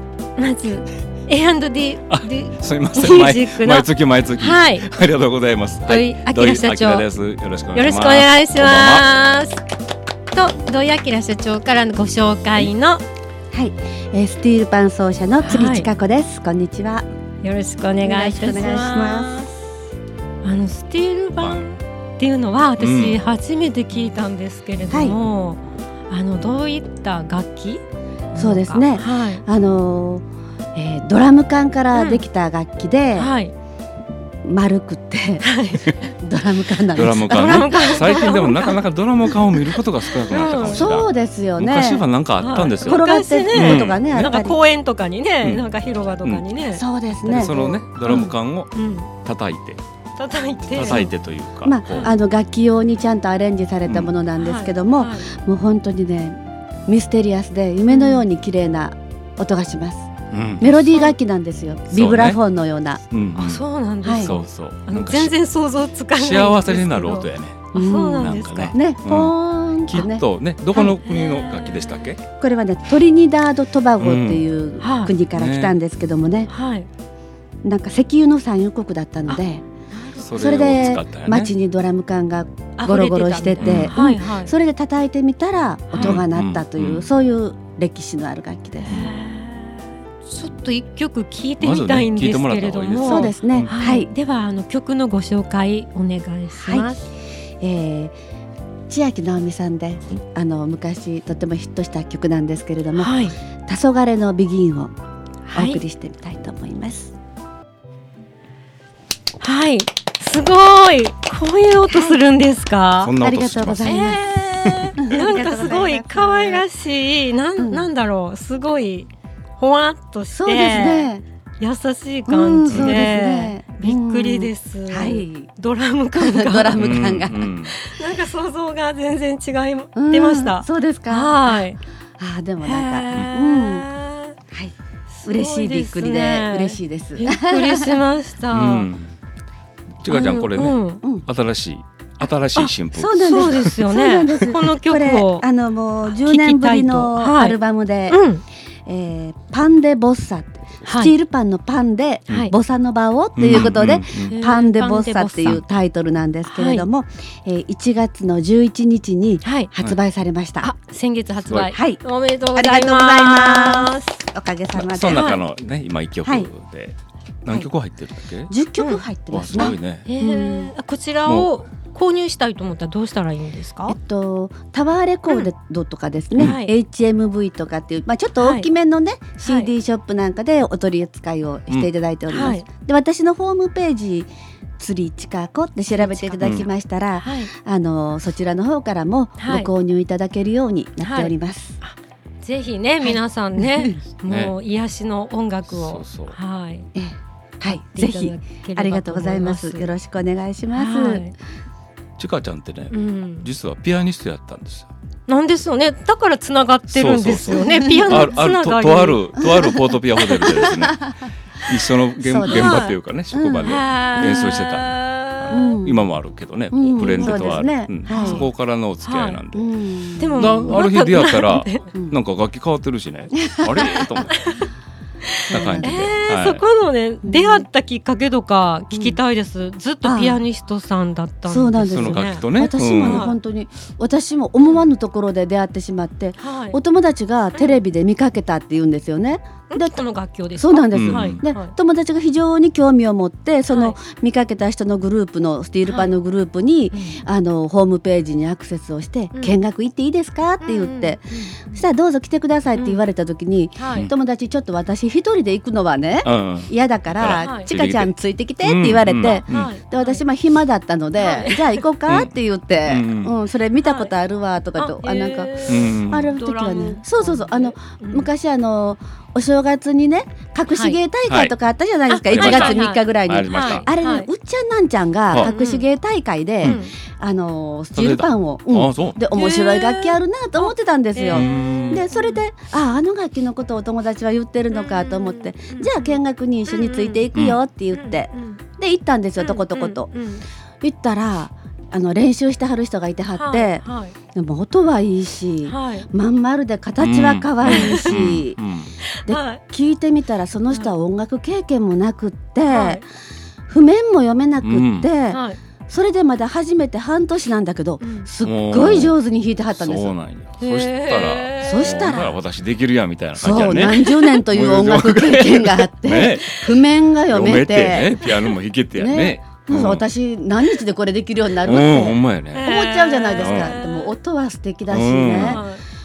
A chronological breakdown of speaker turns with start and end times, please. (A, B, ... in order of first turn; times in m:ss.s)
0:00.4-0:04.9 A
0:02.1-0:09.1 B
0:05.8-0:07.1 A
0:07.7-0:09.6 A
0:10.3-0:13.0 A
0:13.5-0:17.0 C
0:15.4-0:15.9 A
0:17.4-0:19.7 A
0:18.0-0:19.4 C
0:20.4-0:27.8 A
0:21.4-0:21.7 B
0:22.8-0:23.2 B
0:24.9-0:25.2 C
0:28.3-0:29.4 A
0:28.3-0:33.3 C
0:31.9-0:32.2 A
0:33.1-0:33.5 A
0:34.4-0:35.5 C
0:35.4-0:36.1 A
0:36.0-0:38.4 C
0:36.9-0:44.0 B
0:37.3-0:39.4 A
0:40.0-0:41.0 A
0:40.6-0:42.0 C
0:42.4-0:46.8 A
0:42.7-0:44.6 C
0:46.7-0:47.8 C
0:47.2-0:48.7 B
0:47.4-0:49.1 A
0:49.2-0:49.8 B
0:50.2-0:51.1 A
0:50.7-0:52.1 B
0:51.6-1:00.1 C
0:51.9-0:52.1 A
0:53.8-0:54.1 B
0:54.4-0:55.3 A
0:57.9-0:58.3 A
1:00.3-1:00.9 B
1:00.6-1:03.0 C
1:01.9-1:02.4 B
1:03.1-1:05.4 B
1:03.4-1:08.8 A
1:04.0-1:04.3 C
1:06.1-1:12.2 B
1:07.7-1:10.2 C
1:10.7-1:12.0 A
1:12.4-1:16.5 C
1:14.0-1:14.4 B
1:14.8-1:15.1 A
1:15.3-1:15.8 B
1:16.5-1:16.9 A
1:17.6-1:19.6 C
1:19.3-1:20.4 A
1:20.2-1:21.5 B
1:20.2-1:29.0 C
1:22.8-1:24.5 A
1:23.6-1:24.0 B
1:25.9-1:26.2 A
1:26.0-1:27.1 B
1:28.8-1:37.1 A
1:31.6-1:33.7 B
1:33.0-1:34.1 C
1:36.5-1:36.9 C
1:37.6-1:38.1 C
1:38.9-1:44.9 C
1:42.9-1:43.3 A
1:45.5-1:47.1 C
1:45.5-1:45.8 A
1:49.4-1:53.1 A
1:51.9-1:52.2 C
1:53.0-1:54.1 B
1:53.2-1:56.6 C
1:53.8-2:06.8 A
1:57.6-1:57.9 C
2:00.3-2:01.2 C
2:02.3-2:05.5 C
2:06.1-2:07.5 C
2:06.8-2:07.7 B
2:07.7-2:11.8 A
2:09.9-2:11.7 C
2:12.2-2:13.9 C
2:12.6-2:14.3 A
2:15.1-2:18.9 A
2:15.2-2:18.0 C
2:18.5-2:19.1 B
2:20.0-2:23.8 B
2:20.1-2:21.3 C
2:20.1-2:21.0 A
2:22.9-2:28.2 C
2:23.1-2:25.5 A
2:26.0-2:28.4 A
2:28.8-2:40.7 C
2:30.8-2:31.1 A
2:32.3-2:32.5 A
2:33.4-2:34.4 B
2:34.2-2:35.6 A
2:36.5-2:36.8 A
2:39.4-2:39.7 A
2:40.6-2:44.2 A
2:41.4-2:41.7 B
2:41.7-2:42.0 C
2:42.5-2:45.3 C
2:44.7-2:48.5 B
2:45.1-2:45.4 A
2:46.2-2:46.5 C
2:48.5-2:50.7 C
2:48.8-2:49.0 A
2:49.3-2:50.0 B
2:49.6-2:54.0 A
2:51.2-2:51.5 B
2:53.9-3:04.3 C
2:56.4-2:56.7 A
2:58.4-2:58.7 A
2:59.4-2:59.7 A
3:02.3-3:02.6 A
3:04.8-3:11.8 C
3:05.9-3:06.5 A
3:06.4-3:06.7 B
3:07.2-3:07.5 A
3:09.4-3:09.7 A
3:11.0-3:16.9 A
3:13.0-3:13.9 C
3:14.3-3:14.5 B
3:15.7-3:16.4 B
3:16.9-3:21.3 C
3:17.6-3:19.8 A
3:20.7-3:21.3 A
3:22.2-3:24.9 B
3:22.9-3:23.5 A
3:25.3-3:29.2 A
3:26.9-3:31.1 B
3:27.5-3:28.4 C
3:29.4-3:31.1 C
3:31.6-3:39.7 B
3:32.2-3:34.4 C
3:32.4-3:32.9 A
3:33.6-3:35.7 A
3:35.5-3:36.1 C
3:36.7-3:38.5 C
3:36.8-3:38.5 A
3:39.0-3:39.4 A
3:39.5-3:40.8 C
3:40.2-3:41.9 A
3:40.3-3:44.4 B
3:43.3-3:44.3 C
3:44.4-3:44.6 A
3:45.3-3:52.4 A
3:45.5-3:46.6 B
3:45.5-3:46.2 C
3:47.2-3:47.6 C
3:48.9-3:49.2 C
3:50.0-3:50.4 C
3:51.4-4:00.0 C
3:51.8-3:53.3 B
3:53.0-3:53.4 A
3:56.4-3:56.8 A
3:57.5-3:57.8 A
3:59.7-4:01.7 A
4:00.5-4:50.1 C
4:00.9-4:01.4 B
4:03.7-4:04.0 A
4:05.9-4:06.1 A
4:06.9-4:07.2 A
4:10.6-4:11.8 A
4:12.7-4:13.0 A
4:13.8-4:14.1 A
4:16.2-4:19.7 B
4:17.4-4:17.7 A
4:19.3-4:20.2 A
4:21.2-4:21.8 A
4:22.1-4:22.3 B
4:22.8-4:23.3 B
4:23.8-4:24.1 A
4:24.8-4:28.3 A
4:25.6-4:26.3 B
4:30.7-4:31.0 A
4:31.3-4:31.5 B
4:32.1-4:34.3 A
4:32.3-4:33.9 B
4:35.4-4:35.8 A
4:36.6-4:36.9 A
4:37.9-4:39.2 B
4:39.3-4:42.4 A
4:41.3-4:42.0 B
4:44.7-4:47.2 A
4:47.9-4:48.6 A
4:49.4-4:50.4 A
4:50.8-4:53.8 C
4:53.3-4:54.1 A
4:54.3-4:58.6 C
4:55.6-4:56.0 A
4:57.0-4:58.9 B
4:57.7-4:58.2 A
4:59.2-5:03.0 C
4:59.3-4:59.6 A
5:02.7-5:03.0 A
5:03.7-5:10.1 C
5:04.6-5:05.1 B
5:05.3-5:05.6 A
5:08.0-5:08.3 A
5:08.4-5:09.2 B
5:09.7-5:16.7 B
5:10.6-5:11.9 A
5:11.5-5:12.3 C
5:13.4-5:18.2 C
5:17.3-5:20.0 B
5:19.0-5:25.6 C
5:21.6-5:22.7 B
5:22.5-5:24.1 A
5:23.4-5:23.7 B
5:24.9-5:25.6 B
5:25.3-5:25.8 A